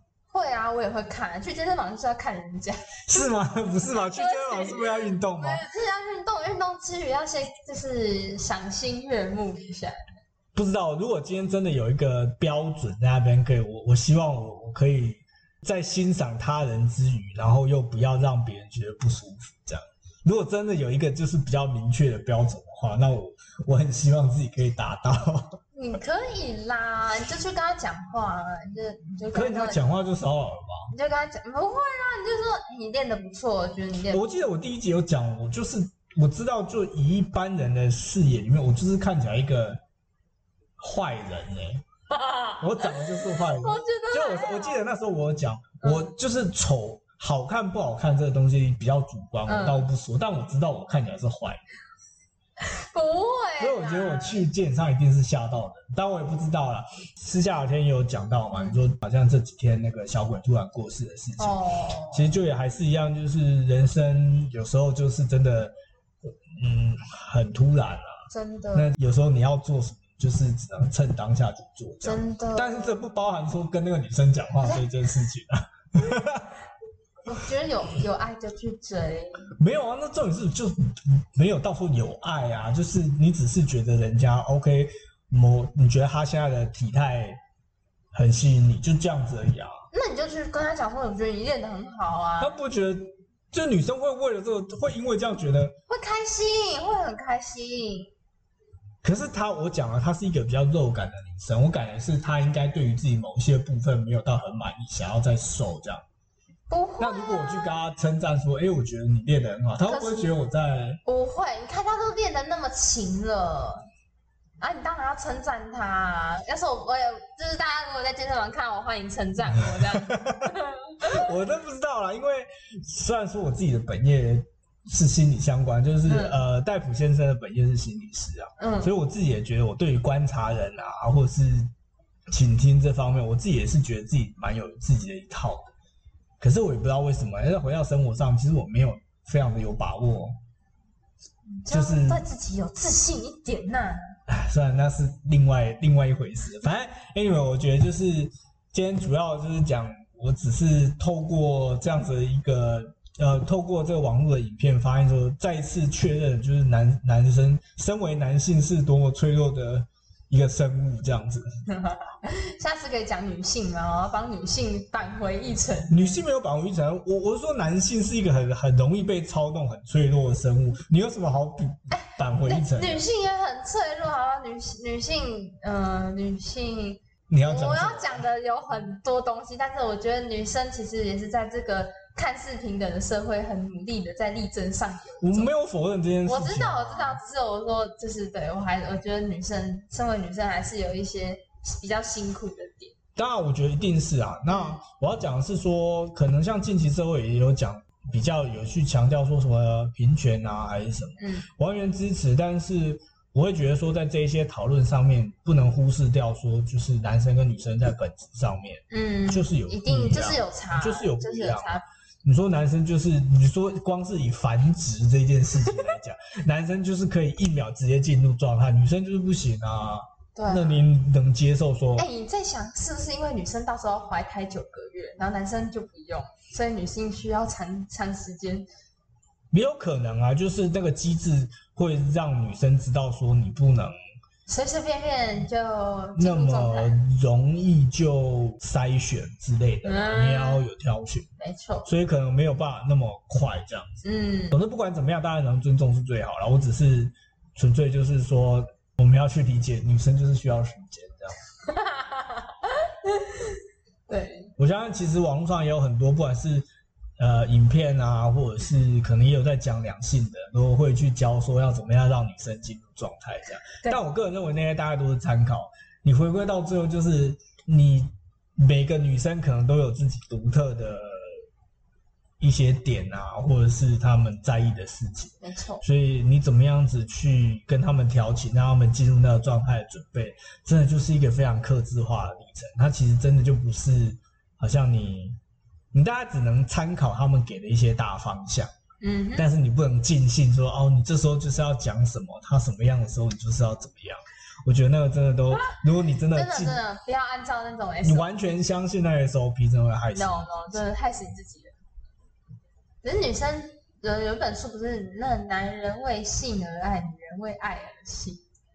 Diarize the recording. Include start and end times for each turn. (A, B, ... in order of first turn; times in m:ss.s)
0:00.3-0:03.3 A
0:03.1-0:05.6 B
0:03.9-0:10.0 A
0:10.5-0:25.6 B
0:25.7-0:29.9 A
0:29.3-0:30.9 B
0:30.9-0:34.2 A
0:34.1-0:39.8 B
0:40.8-0:41.8 B
0:42.1-0:44.8 A
0:42.6-0:51.6 B
0:45.8-0:46.1 A
0:49.4-0:49.8 A
0:52.6-0:54.4 A
0:53.6-1:01.6 B
0:58.5-0:58.8 A
1:01.4-1:02.3 A
1:02.1-1:05.7 B
1:06.6-1:08.2 B
1:08.3-1:08.9 A
1:08.7-1:16.5 B
1:12.0-1:13.0 A
1:17.2-1:19.5 A
1:19.6-1:27.4 B
1:28.1-1:29.7 B
1:29.9-1:32.5 A
1:32.4-1:35.7 B
1:35.9-1:38.1 A
1:39.0-1:46.0 B
1:46.7-1:47.8 A
1:47.0-1:51.0 B
1:49.9-1:50.2 A
1:51.0-1:53.8 A
1:54.6-2:01.3 A
2:00.0-2:11.7 B
2:06.0-2:06.4 A
2:08.6-2:08.9 A
2:12.3-2:15.7 B
2:16.4-2:20.4 B
2:21.6-2:24.0 A
2:21.7-2:22.2 B
2:24.3-2:41.5 B
2:41.7-2:46.1 A
2:45.9-2:53.0 B
2:51.9-3:05.5 A
2:57.3-2:58.2 B
3:05.2-3:07.2 B
3:06.2-3:12.9 A
3:13.2-3:42.1 B
3:14.5-3:14.8 A
3:21.2-3:21.4 A
3:28.9-3:31.8 A
3:35.6-3:35.9 A
3:40.3-3:40.8 A
3:42.0-3:48.6 A
3:49.5-3:54.0 B
3:54.5-3:57.0 A
3:56.2-4:01.3 B
3:59.8-4:00.6 A
4:01.4-4:01.9 A
4:01.8-4:11.4 B
4:04.0-4:04.6 A
4:11.6-4:14.5 A
4:14.6-4:16.7 B
4:17.2-4:31.4 B
4:32.4-4:45.4 B
4:35.4-4:35.8 A
4:45.9-4:48.7 B
4:49.0-4:49.5 A
4:49.4-4:56.8 B
4:56.3-4:58.4 A
4:58.0-5:00.5 B
5:00.1-5:01.7 A
5:03.0-5:08.4 A